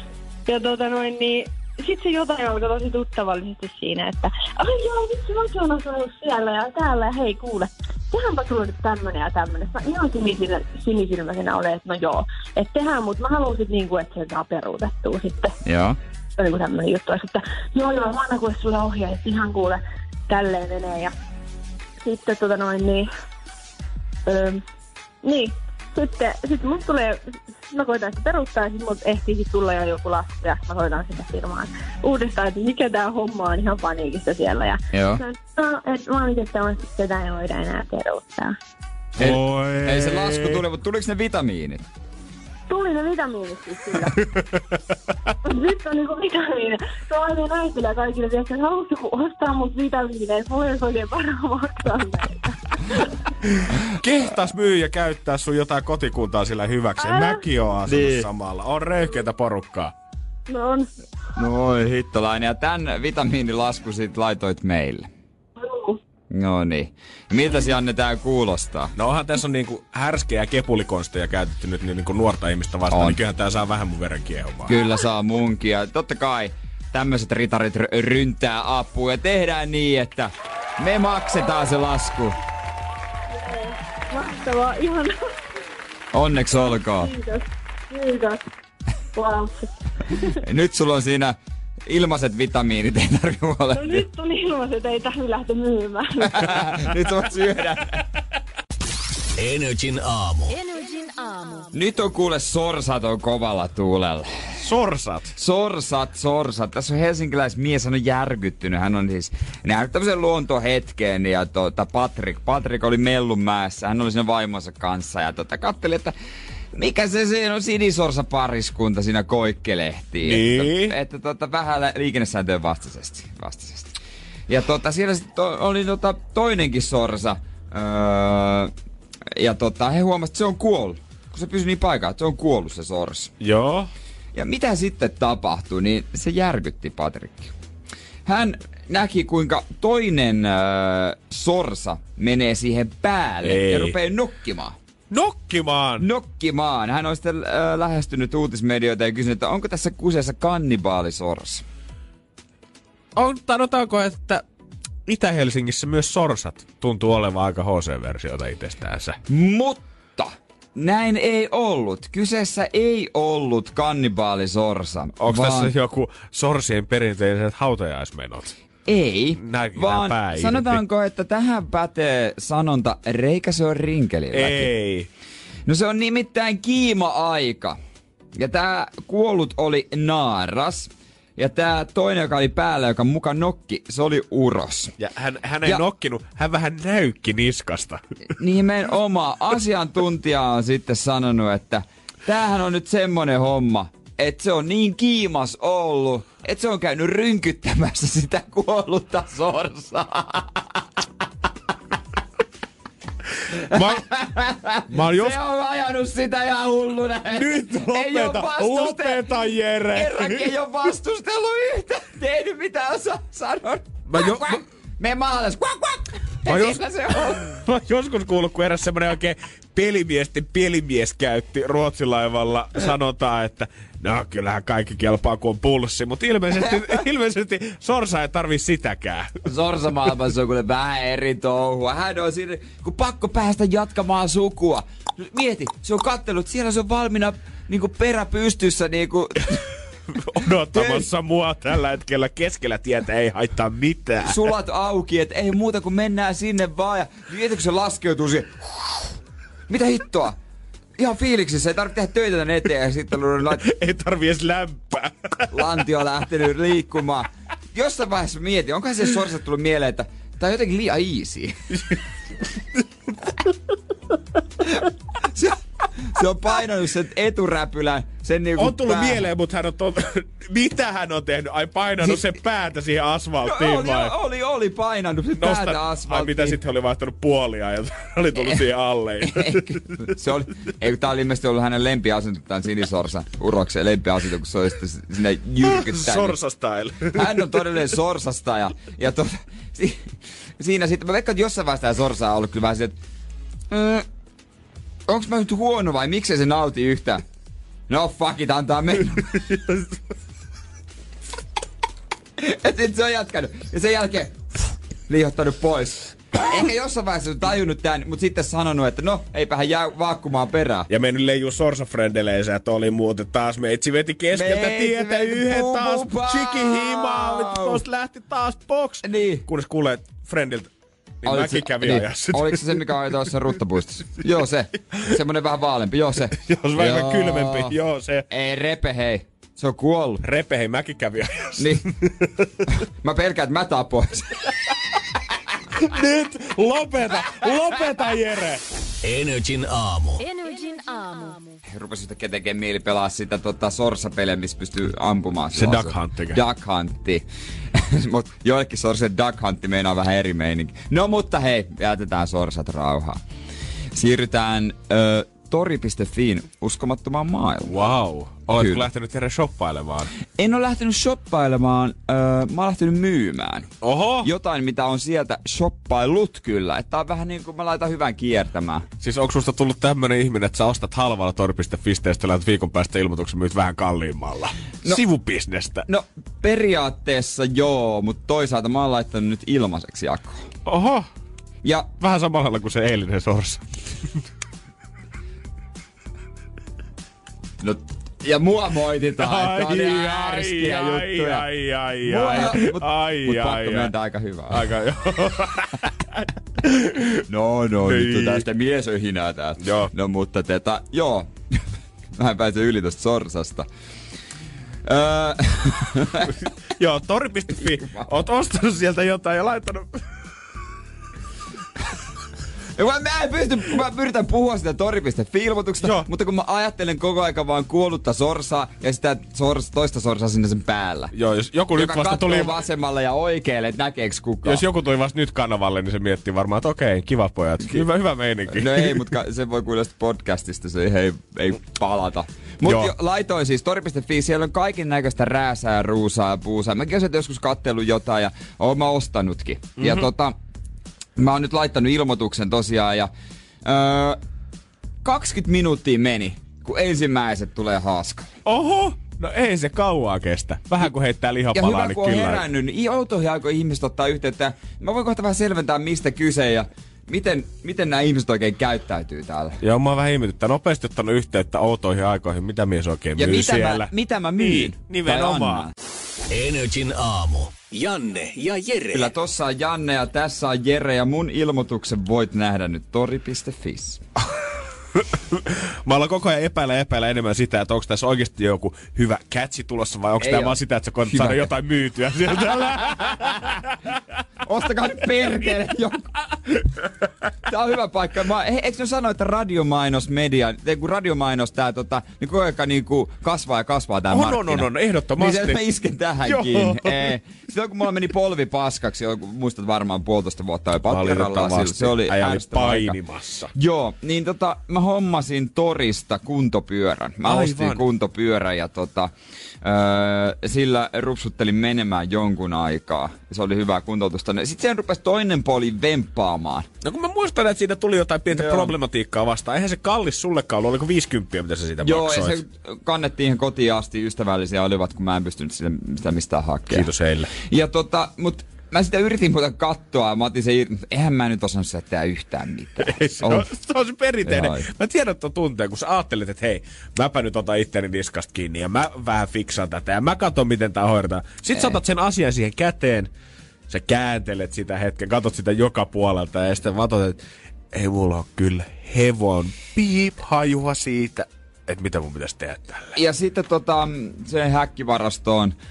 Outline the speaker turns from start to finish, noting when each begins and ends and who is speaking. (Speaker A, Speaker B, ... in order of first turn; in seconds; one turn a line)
Speaker A: 0.5-15.6
Speaker B: 15.6-16.0
Speaker A: 16.4-21.1
Speaker A: 22.0-23.1
Speaker A: 24.3-24.6
Speaker A: 25.2-38.5
Speaker B: 34.9-35.2
Speaker C: 39.2-40.6
Speaker B: 39.2-41.8
Speaker A: 42.7-44.2
Speaker C: 44.1-44.6
Speaker A: 45.4-53.1
Speaker C: 53.6-59.9
Speaker A: 57.0-57.5
Speaker B: 57.9-58.3
Speaker A: 60.5-60.9
Speaker B: 61.4-65.1
Speaker A: 65.6-66.0
Speaker B: 66.3-68.9
Speaker C: 69.0-74.8
Speaker B: 72.9-73.2
Speaker B: 74.7-82.4
Speaker A: 83.3-85.2
Speaker B: 86.1-87.1
Speaker A: 86.9-88.4
Speaker A: 89.1-89.7
Speaker B: 90.3-91.4
Speaker B: 91.9-94.1
Speaker A: 93.7-96.9
Speaker B: 96.2-98.0
Speaker D: 99.4-100.5
Speaker E: 100.5-101.7
Speaker B: 101.7-104.6
Speaker C: 104.6-105.3
Speaker B: 105.4-116.1
Speaker B: 116.7-123.9
Speaker C: 120.2-120.9
Speaker B: 124.5-128.7
Speaker B: 129.4-133.3
Speaker C: 133.4-133.9
Speaker B: 134.3-137.5
Speaker B: 138.3-144.8
Speaker C: 143.4-144.0
Speaker C: 145.1-146.1
Speaker B: 146.0-151.6
Speaker C: 153.2-154.4
Speaker C: 155.1-159.2
Speaker B: 159.3-165.7
Speaker C: 165.2-168.6
Speaker B: 168.9-174.7
Speaker C: 169.4-170.8
Speaker C: 174.3-175.1
Speaker B: 175.7-177.8
Speaker B: 178.4-184.9
Speaker C: 185.0-188.0
Speaker B: 188.4-200.6
Speaker B: 203.5-209.3
Speaker C: 203.7-204.1
Speaker C: 204.9-205.4
Speaker C: 207.3-210.6
Speaker B: 209.9-217.5
Speaker C: 214.1-214.6
Speaker C: 216.4-229.4
Speaker B: 226.6-227.0
Speaker B: 229.4-239.7
Speaker C: 240.1-244.5
Speaker B: 240.7-241.1
Speaker B: 244.2-249.1
Speaker B: 249.7-250.4
Speaker B: 251.0-253.7
Speaker C: 253.5-255.7
Speaker B: 255.5-261.6
Speaker C: 261.7-262.8
Speaker B: 264.7-269.3
Speaker C: 268.6-274.2
Speaker B: 273.4-276.6
Speaker C: 275.4-280.1
Speaker B: 279.3-286.4
Speaker C: 285.6-287.7
Speaker B: 287.1-292.9
Speaker B: 293.7-294.1
Speaker B: 295.1-297.2
Speaker B: 297.9-299.4
Speaker C: 299.5-299.8
Speaker B: 302.4-310.9
Speaker C: 310.9-320.7
Speaker B: 314.3-317.8
Speaker B: 319.0-319.5
Speaker C: 321.2-323.1
Speaker B: 321.2-327.7
Speaker C: 326.4-328.3
Speaker B: 328.3-330.2
Speaker C: 330.2-332.5
Speaker B: 331.6-331.9
Speaker B: 332.7-334.5
Speaker C: 335.8-338.6
Speaker D: 339.0-340.2
Speaker E: 340.2-341.6
Speaker B: 341.7-353.2
Speaker C: 345.5-346.4
Speaker B: 353.9-357.7
Speaker C: 357.6-360.1
Speaker B: 358.5-358.9
Speaker B: 360.4-363.7
Speaker C: 363.8-364.3
Speaker B: 364.2-368.9
Speaker C: 369.0-375.9
Speaker B: 375.9-380.5
Speaker C: 380.6-381.1
Speaker C: 382.0-383.6
Speaker B: 387.6-391.5
Speaker C: 389.2-393.9
Speaker B: 392.0-394.7
Speaker C: 394.5-397.2
Speaker B: 397.3-401.6
Speaker C: 397.8-398.5
Speaker C: 399.6-399.9
Speaker B: 402.2-403.7
Speaker B: 404.9-406.4
Speaker C: 406.2-410.1
Speaker B: 407.8-408.1
Speaker B: 412.8-421.1
Speaker C: 415.8-416.1
Speaker C: 421.1-422.6
Speaker B: 421.7-424.6
Speaker C: 424.4-429.1
Speaker B: 428.5-440.4
Speaker C: 432.6-432.9
Speaker C: 439.8-440.1
Speaker B: 441.2-443.1
Speaker B: 443.6-444.2
Speaker B: 445.0-448.3
Speaker C: 448.4-452.4
Speaker B: 451.5-459.6
Speaker C: 459.6-465.7
Speaker B: 463.2-465.7
Speaker D: 466.3-469.1
Speaker B: 468.9-474.0
Speaker C: 474.9-483.9
Speaker B: 480.2-481.5
Speaker B: 482.5-483.5
Speaker B: 484.4-486.2
Speaker B: 487.4-503.0
Speaker C: 494.1-495.6
Speaker C: 496.2-497.2
Speaker C: 500.9-503.5
Speaker B: 503.6-509.1
Speaker C: 507.2-507.9
Speaker B: 509.6-516.7
Speaker C: 516.8-522.4
Speaker B: 518.3-518.7
Speaker B: 521.8-533.5
Speaker C: 526.7-527.3
Speaker C: 532.8-543.1
Speaker B: 534.2-534.7
Speaker C: 543.7-547.2
Speaker C: 547.7-553.0
Speaker B: 553.0-555.5